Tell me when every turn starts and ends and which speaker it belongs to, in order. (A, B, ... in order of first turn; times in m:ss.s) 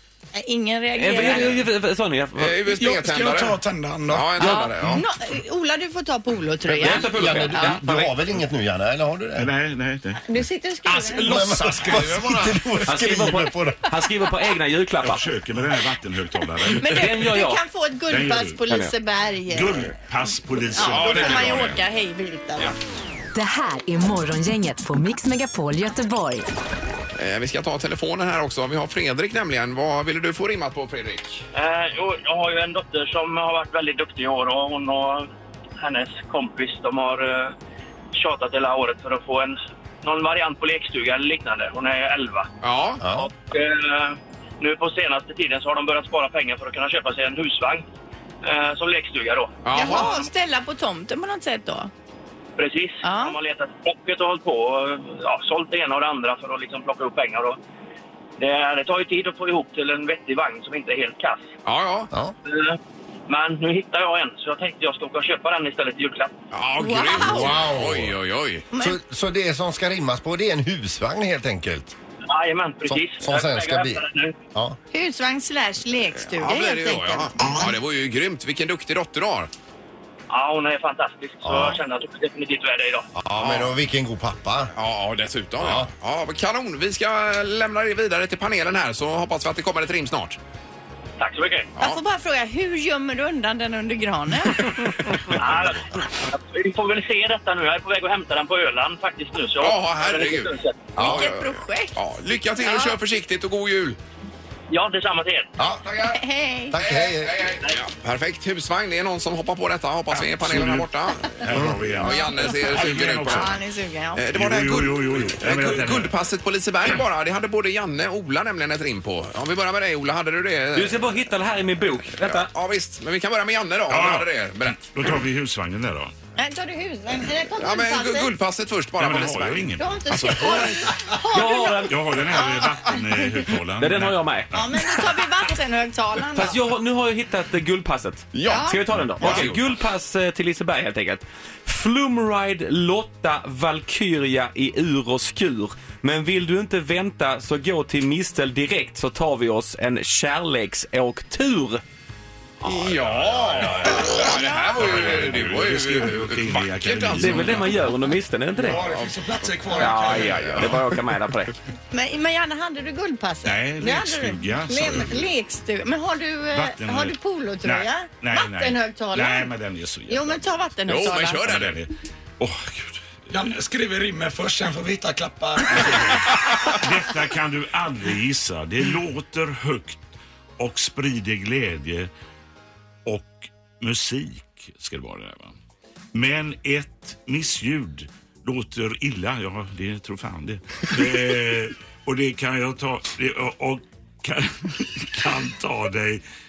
0:00.3-0:01.6 A
0:00.9-0:02.6 B
0:02.4-0:05.0 C
0:02.7-0:04.6 D
0:04.4-0:07.8 A
0:06.8-0:08.2 B
0:06.8-0:09.5 E
0:09.3-0:10.2 F
0:10.2-0:11.5 A
0:10.9-0:12.6 D
0:11.2-0:13.8 E
0:12.8-0:15.2 B
0:15.0-0:17.1 F
0:16.6-0:19.9 A
0:16.8-0:17.6 B
0:18.1-0:18.8 F
0:19.5-0:21.8 F
0:20.7-0:22.7 A
0:20.8-0:21.8 C
0:23.3-0:26.5 G
0:27.2-0:31.4 C
0:31.5-0:35.3 H
0:35.8-0:37.5 H
0:38.1-0:42.5 H
0:42.6-0:43.0 C
0:43.0-0:43.3 E
0:43.4-0:47.8 H
0:48.4-0:50.3 H
0:49.6-0:50.2 C
0:49.7-0:51.9 A
0:52.6-0:57.6 H
0:53.0-0:53.4 A
0:58.4-1:01.5 H
1:01.6-1:02.1 C
1:02.5-1:02.8 H
1:03.3-1:06.3 H
1:06.5-1:08.6 C
1:06.8-1:07.6 A
1:07.1-1:08.1 E
1:08.8-1:11.9 E
1:12.3-1:14.4 H
1:12.8-1:14.0 E
1:14.9-1:17.6 A
1:16.2-1:19.5 C
1:20.3-1:23.1 H
1:21.4-1:21.8 E
1:23.2-1:24.7 E
1:23.4-1:23.7 C
1:24.7-1:30.4 C
1:25.6-1:25.9 E
1:31.2-1:31.7 H
1:31.8-1:35.2 A
1:35.4-1:40.9 H
1:39.6-1:44.0 C
1:41.0-1:41.3 E
1:41.0-1:42.0 A
1:42.6-1:43.0 A
1:44.7-1:45.5 H
1:45.6-1:45.8 E
1:45.8-1:46.2 C
1:46.1-1:46.8 A
1:46.7-1:47.5 E
1:46.8-1:53.6 C
1:50.2-1:53.6 F
1:51.5-1:51.8 E
1:52.0-1:52.4 A
1:53.3-1:54.3 A
1:54.1-2:01.2 C
1:54.3-1:56.2 F
2:00.7-2:02.5 B
2:02.2-2:04.8 C
2:03.9-2:06.1 F
2:06.4-2:08.3 A
2:07.6-2:10.7 C
2:09.0-2:10.9 F
2:09.8-2:13.3 A
2:11.3-2:12.0 B
2:11.6-2:15.0 F
2:13.8-2:14.5 B
2:14.5-2:16.6 A
2:16.3-2:31.8 B
2:18.3-2:19.7 C
2:18.4-2:18.8 A
2:18.9-2:19.5 F
2:32.6-2:37.7 C
2:32.6-2:34.0 F
2:33.9-2:35.0 A
2:34.8-2:37.8 F
2:37.2-2:38.8 B
2:38.6-2:40.4 D
2:38.7-2:40.8 C
2:39.7-2:41.6 B
2:41.9-2:49.5 A
2:43.4-2:45.3 F
2:46.5-2:50.6 F
2:50.1-2:51.5 A
2:50.9-2:51.8 C
2:51.4-2:53.3 F
2:53.3-2:56.3 D
2:55.9-3:00.0 F
3:00.6-3:02.1 F
3:03.0-3:05.5 F
3:06.1-3:16.2 F